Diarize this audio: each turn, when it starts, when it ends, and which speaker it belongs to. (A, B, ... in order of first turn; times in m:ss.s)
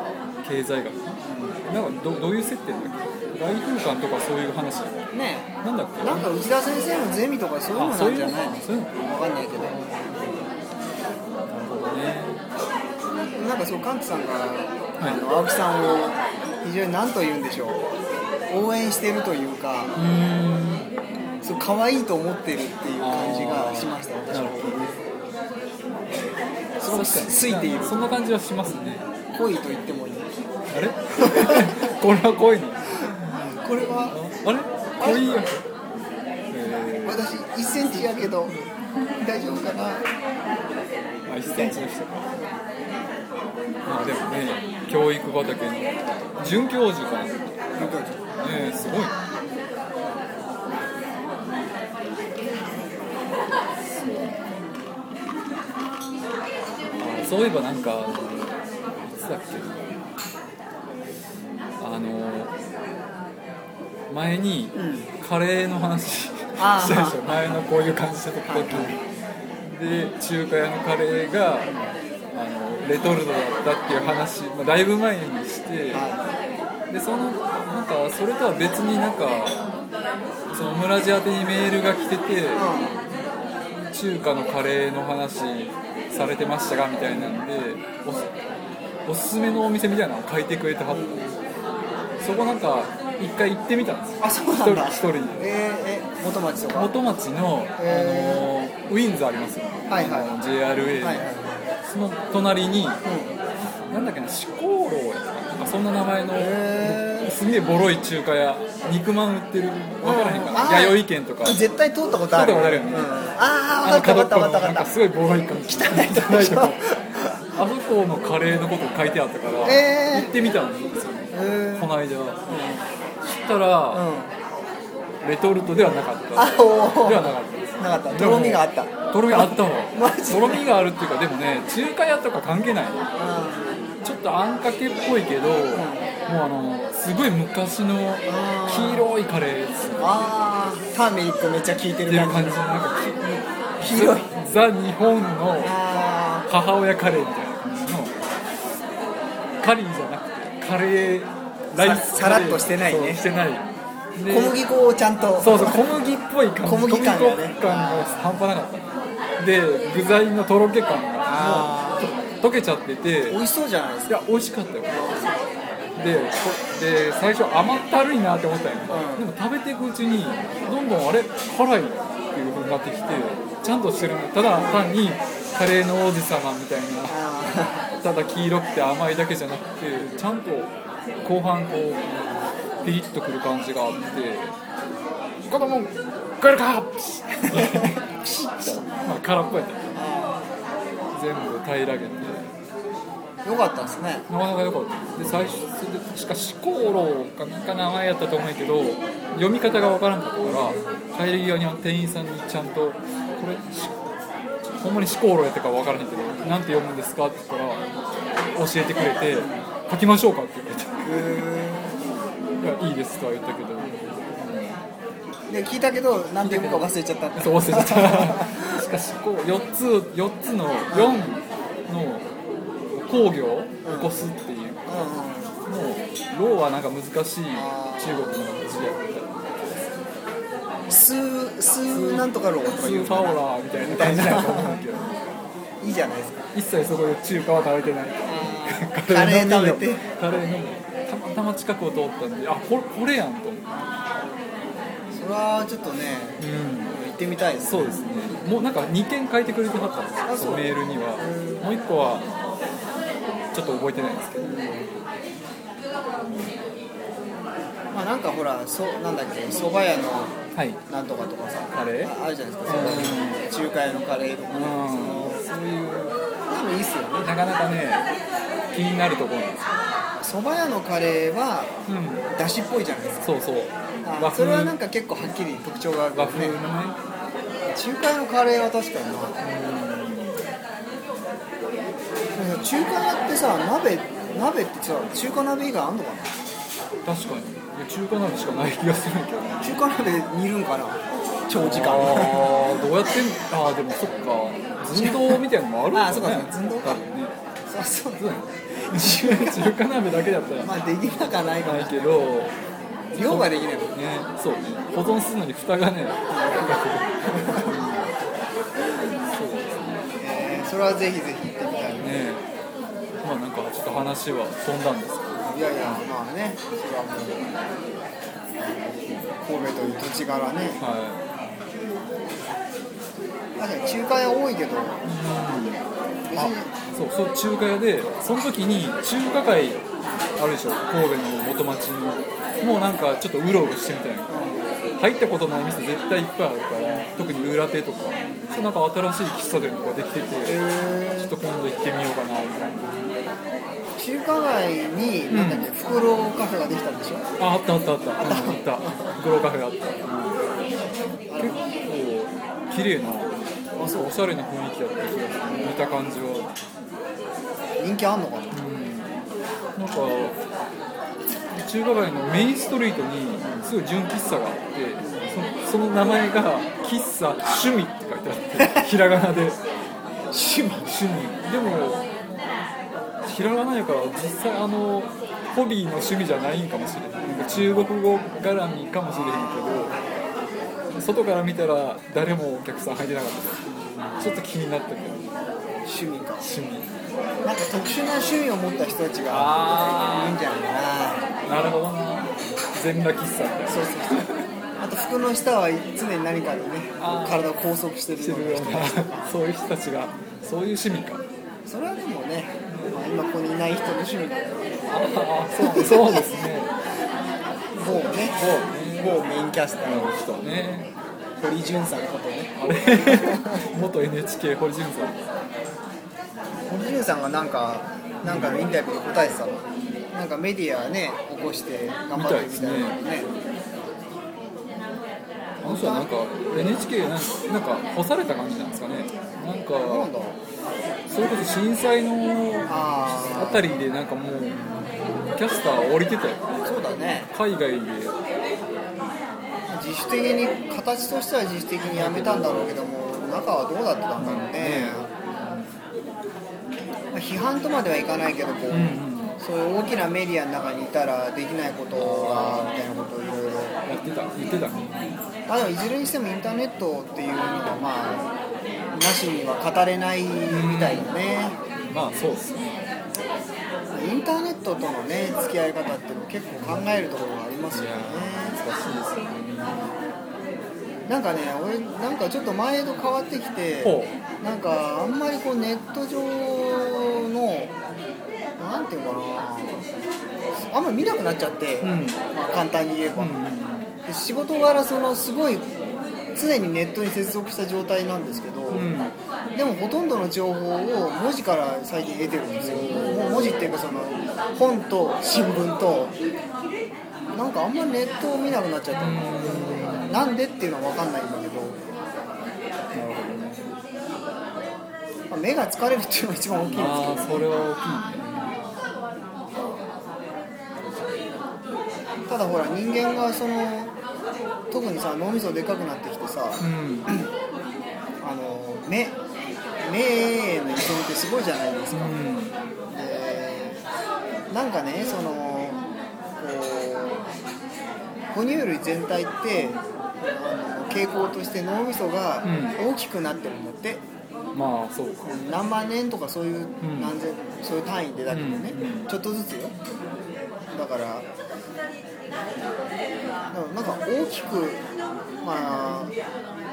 0:00.4-0:04.9 A
0:01.2-0:01.6 B
0:05.1-0:05.5 B
0:05.6-0:06.3 A
0:06.0-0:10.2 B
0:07.7-0:09.0 A
0:09.6-0:10.2 A
0:11.5-0:12.4 A
0:13.3-0:17.8 B
0:18.5-0:20.0 B
0:19.9-0:20.9 A
0:21.4-0:24.9 B
0:23.0-0:25.0 A
0:26.8-0:28.1 B
0:26.9-0:29.0 A
0:29.3-0:30.3 B
0:30.7-0:33.0 A
0:31.2-0:31.9 B
0:33.0-0:34.2 B
0:34.1-0:35.6 A
0:35.0-0:35.4 B
0:36.5-0:37.2 A
0:37.0-0:38.5 B
0:39.2-0:40.0 B
0:41.2-0:42.3 A
0:41.4-0:41.9 B
0:43.8-0:49.1 A
0:47.8-0:48.2 B
0:54.0-0:54.3 A
0:57.0-0:58.6 A
0:59.1-0:59.8 A
1:01.8-1:02.5 A
1:04.1-1:09.0 A
1:04.7-1:05.1 B
1:06.6-1:07.6 B
1:08.5-1:09.0 B
1:09.6-1:11.7 A
1:11.6-1:11.9 B
1:12.3-1:16.0 A
1:15.9-1:16.2 B
1:16.9-1:19.6 A
1:20.5-1:22.7 A
1:22.5-1:23.0 B
1:23.9-1:28.3 A
1:27.1-1:27.4 B
1:29.0-1:31.0 A
1:30.9-1:31.4 B
1:32.2-1:35.5 A
1:34.2-1:36.9 B
1:36.7-1:41.2 A
1:37.8-1:38.5 B
1:39.9-1:40.4 B
1:41.0-1:41.7 B
1:41.8-1:43.0 A
1:43.0-1:43.3 B
1:43.8-1:51.6 A
1:46.4-1:47.3 B
1:50.0-1:54.9 B
1:52.3-1:53.1 A
1:53.8-1:56.8 A
1:55.7-1:57.4 B
1:57.5-2:02.4 A
1:59.6-2:00.3 B
2:01.3-2:01.9 B
2:02.4-2:02.9 B
2:03.2-2:04.0 A
2:03.9-2:04.3 B
2:05.2-2:13.1 A
2:06.4-2:10.6 B
2:13.2-2:13.8 B
2:14.0-2:20.2 A
2:15.7-2:16.1 B
2:18.2-2:19.1 B
2:20.0-2:22.6 B
2:22.1-2:25.7 A
2:23.8-2:24.3 B
2:25.6-2:26.5 B
2:26.5-2:28.1 A
2:29.6-2:34.6 A
2:31.7-2:33.2 B
2:34.3-2:35.9 B
2:35.4-2:43.4 A
2:36.6-2:38.4 B
2:41.2-2:42.1 B
2:43.3-2:44.2 B
2:44.1-2:45.0 A
2:44.9-2:45.4 B
2:46.0-3:02.2 A
2:48.9-2:49.3 B
2:57.1-2:57.9 B
3:02.1-3:02.4 B
3:02.8-3:04.5 A
3:05.5-3:09.8 A
3:07.4-3:08.8 B
3:09.9-3:10.4 B
3:11.1-3:12.5 A
3:13.4-3:14.3 B
3:14.3-3:23.9 A
3:24.8-3:27.8 A
3:28.5-3:31.4 A
3:29.3-3:29.6 B
3:31.0-3:32.0 B
3:32.6-3:34.8 A
3:35.5-3:38.8 B
3:36.4-3:42.3 A
3:40.9-3:41.3 B
3:42.9-3:45.1 A
3:43.8-3:44.2 B
3:44.9-3:45.6 B
3:45.7-3:49.4 A
3:47.5-3:48.4 B
3:50.9-3:54.8 B
3:51.9-3:55.2 A
3:55.8-3:56.4 B
3:56.5-4:03.7 A
3:58.2-4:00.0 B
4:05.1-4:08.0 B
4:06.4-4:06.9 A
4:07.6-4:12.3 A
4:10.2-4:11.6 B
4:13.5-4:14.5 A
4:14.4-4:14.9 B
4:16.2-4:16.5 A
4:17.9-4:20.4 B
4:20.5-4:20.8 A
4:20.9-4:25.4 B
4:21.7-4:22.1 A
4:22.6-4:23.4 A
4:24.5-4:26.2 A
4:26.5-4:27.3 B
4:27.2-4:28.0 A
4:28.7-4:29.7 A
4:30.2-4:31.7 B
4:31.9-4:32.2 A
4:32.3-4:33.3 B
4:33.2-4:34.7 A
4:34.0-4:36.6 B
4:36.1-4:37.0 A
4:37.7-4:39.4 B
4:39.4-4:40.4 A
4:42.4-4:46.3 B
4:47.0-4:49.7 A
4:49.6-4:52.6 B
4:51.6-4:57.3 A
4:54.9-4:55.4 B
4:55.9-4:57.0 B
4:57.7-4:59.7 B
4:58.2-5:00.7 A
5:00.6-5:02.3 B
5:01.6-5:02.5 A
5:03.1-5:03.9 B
5:03.2-5:08.1 A
5:06.3-5:07.7 B
5:09.2-5:10.0 A
5:10.2-5:12.2 B
5:12.0-5:12.4 A
5:13.2-5:16.0 A
5:15.4-5:17.5 B
5:18.6-5:20.8 B
5:20.8-5:21.2 A
5:23.6-5:25.0 B
5:25.0-5:25.8 A
5:26.3-5:26.7 B
5:26.3-5:29.8 A
5:30.4-5:34.4 A
5:34.3-5:34.7 B
5:35.0-5:40.6 A
5:36.8-5:37.1 B
5:40.4-5:41.3 B
5:41.2-5:43.0 A
5:44.0-5:47.2 B
5:45.3-5:45.7 A
5:47.4-5:50.4 A
5:48.2-5:49.2 B
5:51.3-5:51.6 B
5:51.4-5:56.5 A
5:53.8-5:54.1 B
5:55.5-5:55.7 B
5:57.8-5:58.6 B
5:58.5-5:59.2 A
5:59.8-6:00.4 A
6:01.5-6:09.6 A
6:03.4-6:03.7 B
6:05.0-6:05.4 B
6:10.3-6:10.9 B
6:10.8-6:12.0 A
6:13.2-6:20.0 A
6:17.2-6:17.7 B
6:19.1-6:20.1 B
6:20.9-6:23.6 A
6:23.7-6:24.3 B
6:24.2-6:25.3 A
6:25.8-6:26.4 B
6:26.4-6:26.9 A
6:27.4-6:31.2 B
6:29.3-6:30.4 A
6:31.4-6:34.4 A
6:33.7-6:34.3 B
6:34.8-6:39.3 B
6:37.0-6:37.4 A
6:38.2-6:41.2 A
6:41.7-6:44.6 B
6:44.9-6:46.7 A
6:45.6-6:46.3 B
6:47.7-6:48.4 B
6:47.9-6:49.2 A
6:49.0-6:50.1 B
6:49.8-6:50.9 A
6:51.4-6:53.7 B
6:52.6-6:55.2 A
6:56.7-7:03.3 B
6:58.2-6:58.7 A
7:02.1-7:03.0 A
7:05.6-7:06.8 B
7:05.6-7:10.1 A
7:09.8-7:10.4 B
7:11.1-7:14.6 A
7:12.7-7:13.7 B
7:14.5-7:15.0 B
7:15.2-7:16.6 A
7:16.6-7:17.3 B
7:17.3-7:18.2 A
7:19.7-7:25.1 B
7:21.9-7:22.7 A
7:24.2-7:25.6 A
7:27.1-7:33.8 B
7:28.7-7:29.4 A
7:32.0-7:32.9 A
7:33.8-7:35.2 A
7:35.5-7:38.3 B
7:38.9-7:41.6 B
7:40.5-7:41.1 A
7:41.9-7:42.8 A
7:43.9-7:48.6 B
7:47.7-7:49.9 A
7:51.1-7:57.7 B
7:53.8-7:54.1 A
7:58.6-7:59.8 B
8:00.7-8:03.3 B
8:01.8-8:02.2 A
8:03.2-8:03.9 A
8:04.0-8:05.7 B
8:06.3-8:08.9 B
8:08.7-8:09.1 A
8:09.5-8:16.2 B
8:12.6-8:13.7 A
8:17.3-8:21.8 B
8:18.9-8:20.2 A
8:22.9-8:23.7 A
8:25.3-8:27.6 B
8:26.7-8:28.3 A
8:32.3-8:33.9 B
8:34.7-8:37.3 B
8:36.6-8:37.1 A
8:38.2-8:39.2 B
8:39.8-8:42.2 B
8:41.9-8:42.6 A
8:42.9-8:43.8 B
8:44.5-8:45.8 B
8:46.4-8:47.3 B
8:48.3-8:54.0 B
8:52.4-8:52.8 A
8:54.5-8:55.3 A
8:55.2-8:59.7 B
8:56.8-8:57.1 A
8:58.3-8:59.1 A
9:00.7-9:01.3 B
9:03.5-9:04.8 B
9:05.4-9:06.1 B